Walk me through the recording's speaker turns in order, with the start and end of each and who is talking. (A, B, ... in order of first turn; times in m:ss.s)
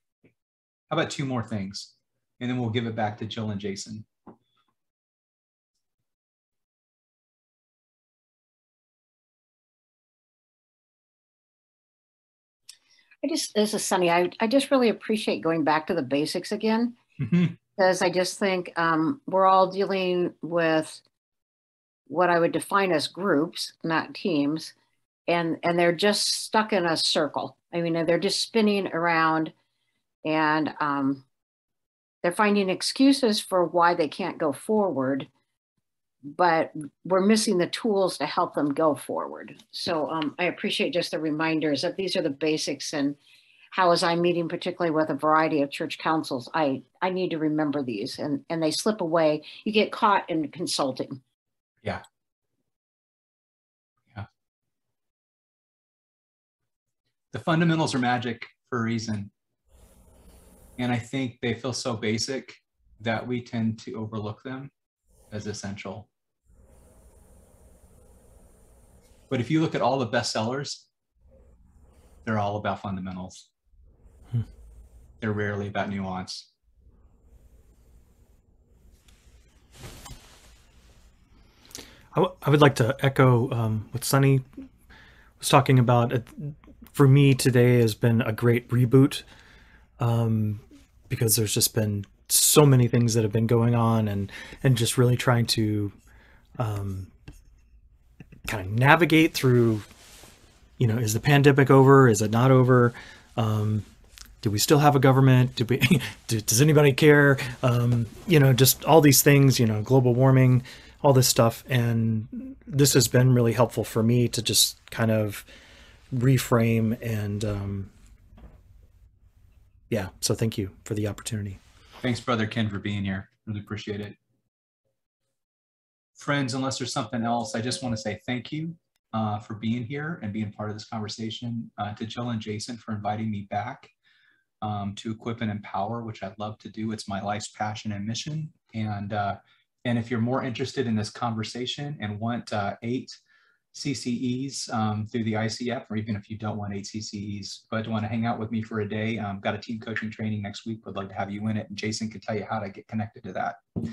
0:00.9-0:04.0 A
0:13.2-0:17.0 B
0:17.2-0:17.6 A
0:17.8-0:21.0 B
0:22.1-0:24.7 B
0:25.3-0:29.5 B
0:30.2-0:31.2 B
0:32.2-0:35.3 B
0:36.2-0:43.2 B
0:43.7-0:51.2 B
0:57.3-0:59.3 A
1:00.8-1:04.7 A
1:05.3-1:06.1 A
1:09.3-1:10.8 A
1:12.2-1:13.4 A
1:15.2-1:16.5 A
1:22.1-1:24.4 C
1:25.4-1:29.2 C
1:30.0-1:35.9 C
1:36.6-1:37.1 C
1:38.4-1:39.9 C
1:40.8-1:43.9 C
1:44.4-1:55.5 C
1:56.1-1:57.9 C
1:59.9-2:01.6 C
2:02.0-2:04.2 A
2:06.2-2:13.9 A
2:14.6-2:23.2 A
2:23.7-2:33.6 A